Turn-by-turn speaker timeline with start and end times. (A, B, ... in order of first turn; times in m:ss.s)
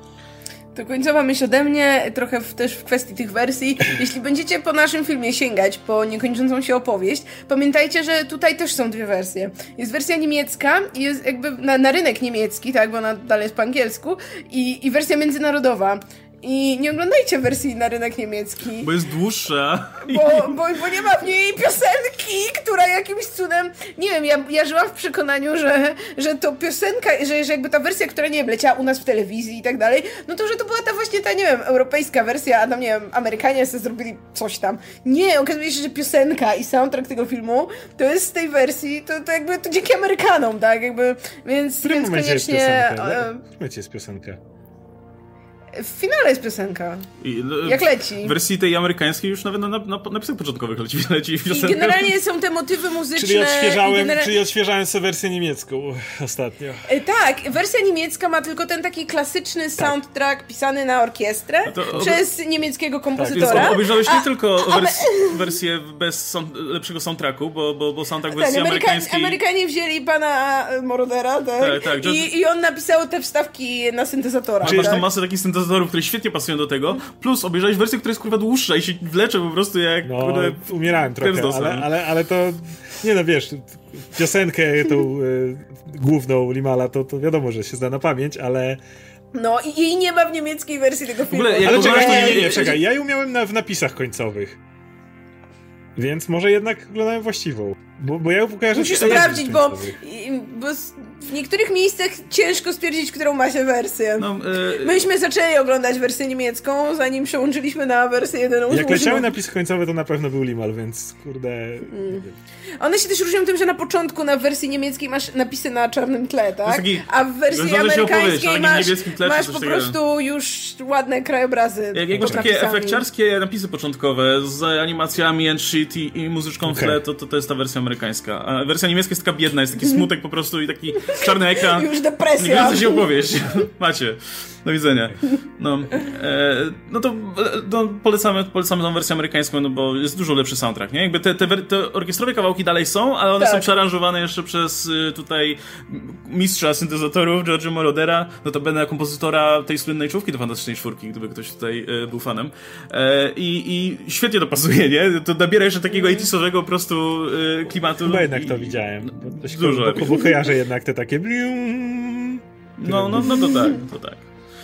0:00.8-0:18.9 A
0:18.8-0:20.6 B
0:20.1-0:43.4 A
0:41.8-0:44.4 C
0:45.7-0:47.1 A
0:47.2-0:52.2 B
0:47.6-0:48.4 A
0:51.5-0:54.4 A
0:53.2-0:56.9 C
0:56.9-1:05.5 A
1:01.7-1:02.2 B
1:03.2-1:03.8 C
1:03.3-1:09.4 B
1:08.3-1:15.0 A
1:11.6-1:12.3 B
1:14.6-1:21.9 B
1:14.6-1:15.0 C
1:20.0-1:28.8 C
1:29.3-1:32.8 A
1:31.3-1:32.8 B
1:31.6-1:34.6 C
1:36.0-1:40.0 C
1:38.7-1:49.3 A
1:38.9-1:39.3 B
1:44.2-1:45.0 B
1:48.7-1:52.4 C
1:51.9-1:52.2 A
1:52.8-2:03.0 A
1:56.6-2:00.0 B
2:01.9-2:40.3 B
2:02.2-2:02.4 C
2:06.6-2:07.0 C
2:11.0-2:13.1 A
2:23.4-2:23.6 A
2:38.0-2:43.3 C
2:42.8-2:44.3 B